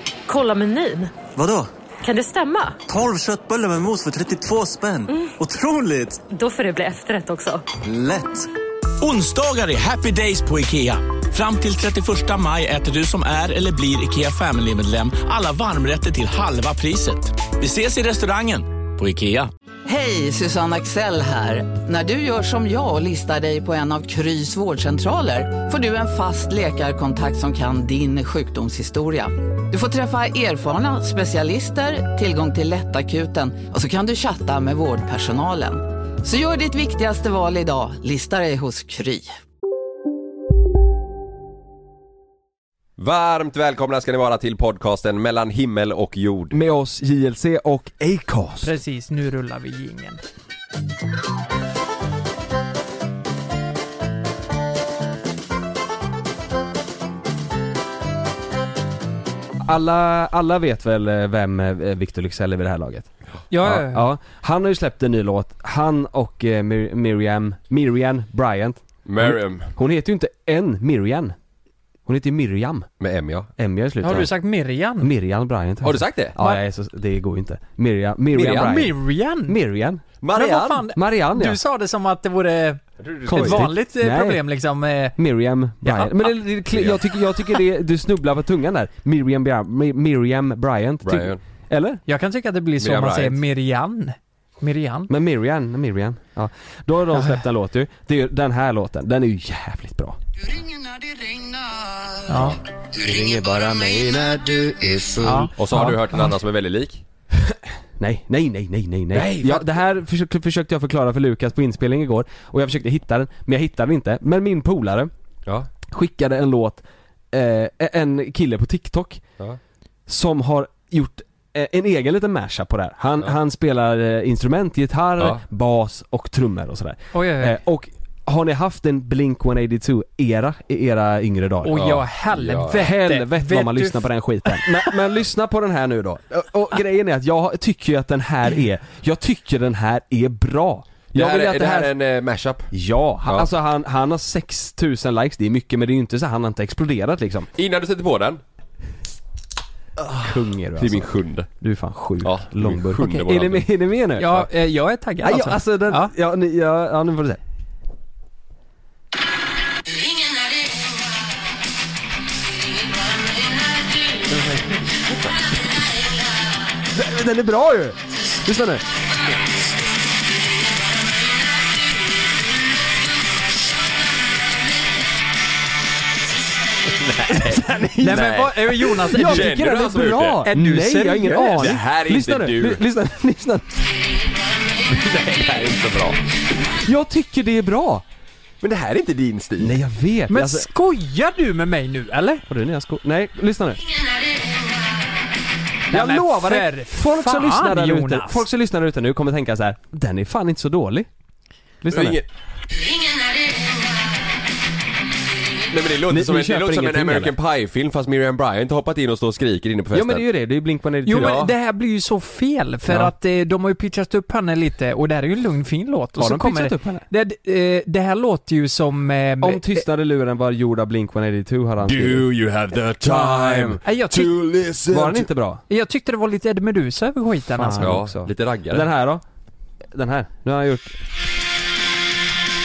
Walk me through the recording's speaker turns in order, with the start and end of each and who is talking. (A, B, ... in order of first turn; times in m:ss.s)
0:00.3-0:01.2 A
0:01.3-0:01.7 B
0:02.0-0:02.8 A
0:02.9-0:06.2 B
0:06.3-0:07.6 A
0:07.8-0:08.5 B
0:09.0-0:19.5 C
0:19.8-0:39.3 D
0:43.0-0:46.5 E
0:46.5-0:48.7 F
0:48.6-0:50.2 G
0:59.6-1:03.1 F
1:03.5-1:04.1 G
1:03.6-1:11.3 F
1:09.0-1:09.7 E
1:12.0-1:12.9 F
1:13.0-1:13.5 E
1:13.6-1:14.3 F
1:14.0-1:15.1 G
1:15.0-1:20.0 F
1:15.8-1:16.3 E
1:18.3-1:18.8 E
1:18.4-1:19.6 G
1:20.2-1:20.8 E
1:20.3-1:25.2 G
1:20.9-1:21.6 F
1:23.0-1:23.6 E
1:23.2-1:24.4 F
1:25.2-1:32.0 F
1:25.8-1:26.3 G
1:26.7-1:27.0 E
1:31.0-1:31.4 E
1:32.0-1:35.1 G
1:32.8-1:33.4 E
1:35.1-1:40.2 F
1:37.1-1:37.4 G
1:42.3-1:42.6 G
1:43.0-1:45.4 F
1:45.2-1:46.3 G
1:45.6-1:47.0 E
1:47.4-1:55.1 F
1:49.1-1:49.8 E
1:55.9-1:59.2 F
2:00.1-2:12.0 F
2:07.1-2:07.6 G
2:11.6-2:14.7 G
2:11.7-2:12.8 E
2:12.7-2:21.9 F
2:21.1-2:22.7 E
2:22.7-2:27.5 F
2:27.6-2:28.4 E
2:30.0-2:31.5 E
2:30.2-2:34.5 F
2:32.2-2:33.7 E
2:34.2-2:36.1 G
2:35.2-2:37.4 F
2:46.9-2:48.8 F
2:56.9-3:00.4 E
2:57.3-2:58.3 F
2:58.0-2:59.5 G
2:59.0-3:03.8 F
3:00.4-3:01.8 G
3:01.6-3:02.8 E
3:04.9-3:06.2 E
3:06.8-3:08.0 F
3:08.6-3:09.8 E
3:09.6-3:10.7 F
3:10.3-3:12.4 G
3:12.5-3:13.8 F
3:15.9-3:21.1 F
3:15.9-3:18.4 G
3:21.8-3:22.2 F
3:21.9-3:22.3 E
3:25.7-3:30.2 E
3:26.1-3:27.3 F
3:29.9-3:31.4 F
3:31.0-3:39.8 G
3:31.1-3:31.5 E
3:32.9-3:33.1 F
3:36.2-3:37.0 F
3:39.4-3:42.3 F
3:41.9-3:43.0 E
3:43.0-3:43.8 F
3:43.8-3:44.4 G
3:44.1-3:45.1 E
3:44.8-3:45.6 F
3:45.7-3:47.9 G
3:47.6-3:49.2 F
3:47.8-3:48.9 E
3:49.9-3:51.0 F